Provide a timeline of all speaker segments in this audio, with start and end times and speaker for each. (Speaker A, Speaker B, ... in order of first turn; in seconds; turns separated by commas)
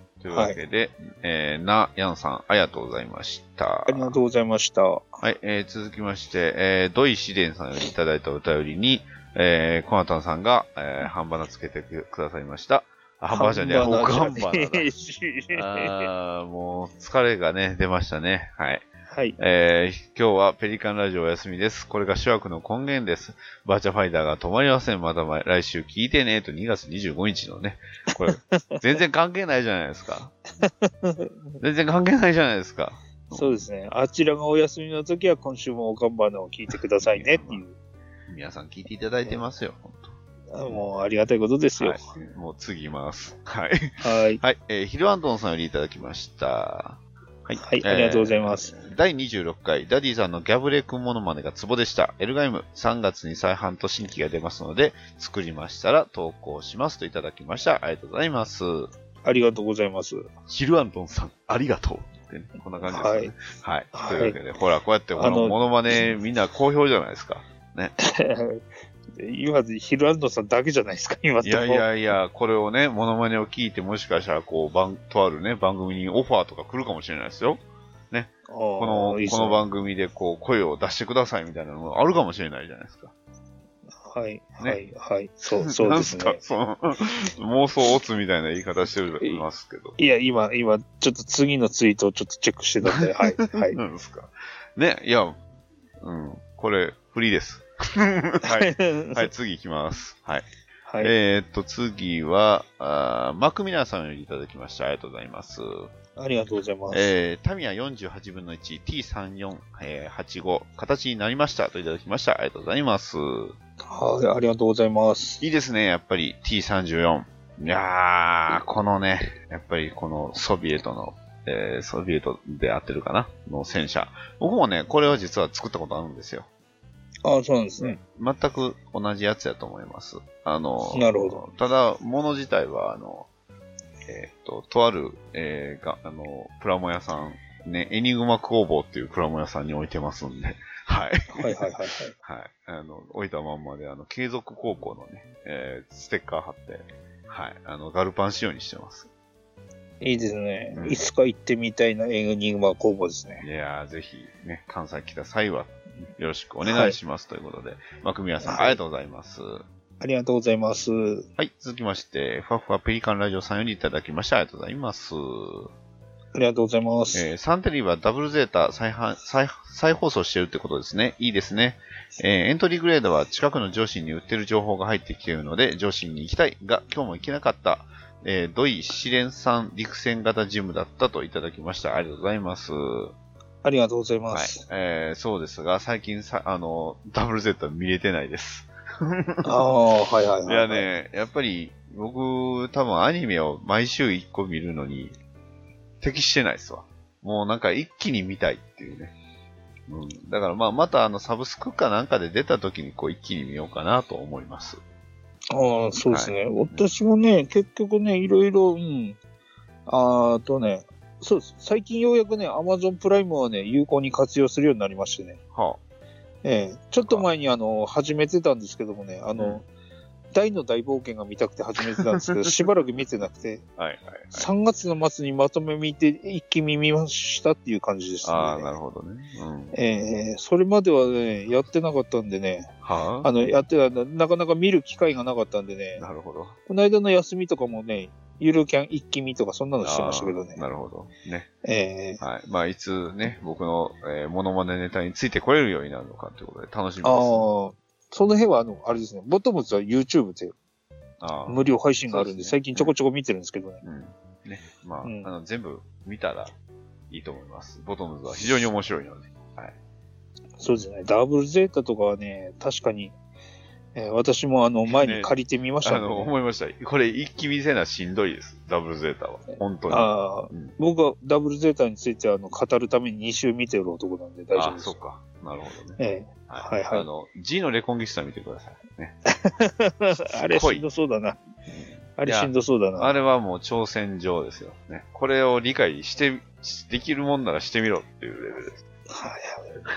Speaker A: 0.2-4.2, Speaker B: 0.3-0.6, Speaker B: 3.9-5.2, Speaker A: 5.2-14.9, Speaker B: 13.3-16.1, Speaker A: 15.5-18.8, Speaker B: 19.1-19.4, Speaker A: 19.4-30.4, Speaker B: 28.5-28.8, Speaker B: 30.6-31.6, Speaker A: 31.6-33.6, Speaker B: 33.3-37.8, Speaker A: 37.0-37.6, Speaker A: 38.3-40.1, Speaker B: 40.5-42.0, Speaker A: 41.8-58.9, Speaker B: 44.0-44.4, Speaker B: 47.6-48.7, Speaker B: 59.2-60.2, Speaker A: 60.5-67.9, Speaker B: 62.9-63.3, Speaker B: 63.9-64.4, Speaker B: 65.2-66.1, Speaker B: 68.0-68.6, Speaker B: 69.1-71.9, Speaker A: 71.4-83.1, Speaker B: 78.5-79.6, Speaker B: 84.0-86.4, Speaker A: 85.7-90.0, Speaker B: 90.0-93.8, Speaker A: 92.8-95.4, Speaker A: 96.0-100.5, Speaker B: 98.4-99.3, Speaker B: 100.9-101.1, Speaker A: 101.0-105.9, Speaker B: 106.2-107.1, Speaker A: 106.9-113.5, Speaker B: 113.8-115.4, Speaker A: 115.4-126.5, Speaker B: 127.2-128.0, Speaker A: 127.8-133.3, Speaker B: 130.9-131.4, Speaker A: 134.0-141.7, Speaker B: 141.3-142.1, Speaker A: 142.2-149.1, Speaker B: 150.0-153.4, Speaker A: 150.7-151.1, Speaker A: 153.4-159.6, Speaker B: 156.6-156.9, Speaker B: 158.4-158.8, Speaker B: 160.0-161.3, Speaker A: 161.4-165.7, Speaker B: 166.3-167.2, Speaker A: 167.1-183.1, Speaker B: 183.6-184.6, Speaker A: 184.3-189.6, Speaker B: 189.4-190.8, Speaker A: 190.4-195.2, Speaker A: 196.0-199.1, Speaker A: 199.9-204.8, Speaker B: 205.5-209.2, Speaker A: 206.1-206.9, Speaker B: 209.9-215.4, Speaker A: 215.5-215.8, Speaker B: 216.4-219.7, Speaker B: 220.3-223.6, Speaker A: 223.8-224.5, Speaker B: 224.3-228.7, Speaker A: 228.2-229.8, Speaker B: 229.7-232.7, Speaker A: 232.8-233.3, Speaker B: 233.2-236.0, Speaker A: 236.0-236.6, Speaker B: 236.7-240.6, Speaker A: 239.8-241.5, Speaker B: 241.6-242.2, Speaker A: 242.2-247.5, Speaker B: 247.0-250.5, Speaker A: 251.2-252.9, Speaker B: 251.5-253.8, Speaker A: 253.8-256.5, Speaker B: 255.0-255.3, Speaker A: 257.1-259.7, Speaker B: 260.6-263.1, Speaker B: 263.9-266.3, Speaker A: 264.9-270.7, Speaker B: 269.9-275.0, Speaker A: 274.5-279.1, Speaker B: 276.0-277.1, Speaker B: 279.3-281.4, Speaker A: 280.2-280.8, Speaker A: 281.7-288.8, Speaker B: 282.2-283.1, Speaker B: 289.1-289.9